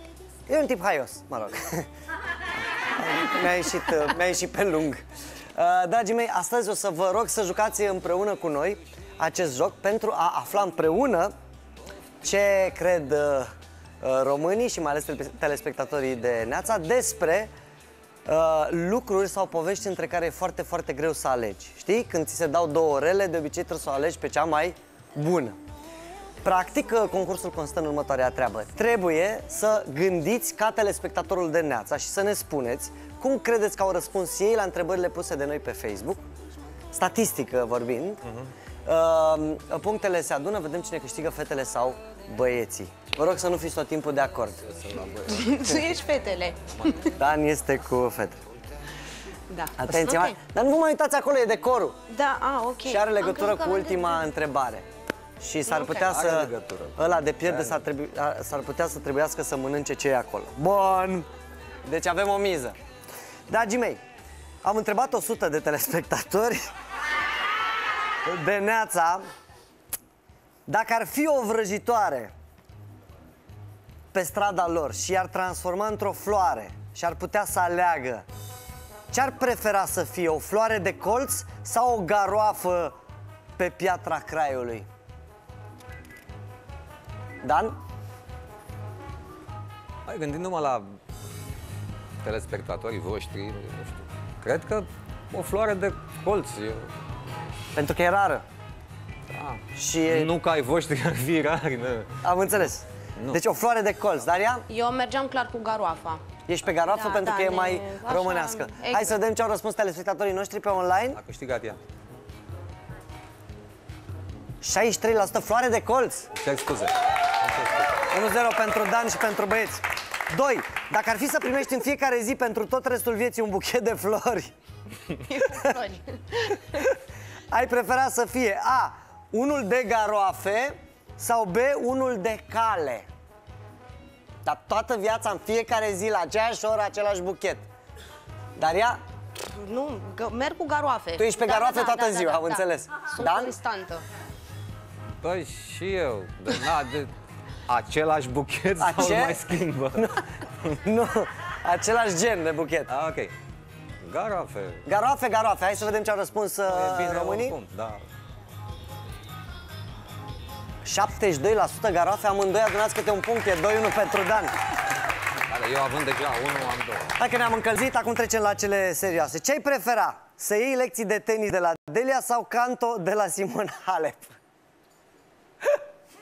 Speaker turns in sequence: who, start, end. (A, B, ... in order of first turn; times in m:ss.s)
0:00.5-0:01.9 A
0:03.0-0:05.0 A
0:05.6-0:11.3 A
0:12.2-0:13.5 A
0:14.0-0:17.5 A
0:18.3-0:25.6 A
0:26.4-0:36.2 A
0:36.9-0:38.2 A
0:38.8-0:44.8 A
0:44.8-0:45.6 B
0:45.2-0:47.1 C
0:47.2-0:48.4 A
0:49.5-0:50.4 C
0:49.8-0:52.0 A
0:52.1-0:54.3 C
0:52.9-0:54.8 A
0:55.4-1:01.3 A
0:55.7-0:56.1 C
0:55.9-0:57.8 B
1:01.9-1:02.8 A
1:03.5-1:04.0 A
1:04.6-1:06.7 A
1:08.2-1:09.2 A
1:10.7-1:12.3 A
1:14.1-1:18.2 A
1:19.1-1:22.9 A
1:23.6-1:24.9 A
1:27.4-1:27.8 A
1:30.1-1:30.9 B
1:32.2-1:36.9 B
1:37.8-1:38.4 A
1:39.3-1:42.2 B
1:39.7-1:40.3 A
1:42.2-1:44.6 A
1:44.7-1:46.2 C
1:46.5-1:51.2 A
1:46.8-1:49.2 C
1:51.1-1:51.8 B
1:54.6-1:56.3 A
1:56.4-1:58.0 B
1:58.1-2:04.5 A
2:05.1-2:06.8 C
2:07.5-2:13.1 A
2:14.4-2:17.6 A
2:18.6-2:19.0 A
2:19.5-2:24.0 C
2:21.2-2:23.5 A
2:25.2-2:27.1 B
2:27.7-2:30.2 B
2:28.8-2:32.9 A
2:32.9-2:33.3 B
2:34.0-2:34.8 B
2:34.9-2:37.6 A
2:36.6-2:38.0 B
2:40.8-2:44.5 A
2:45.5-2:47.1 B
2:47.2-2:54.3 A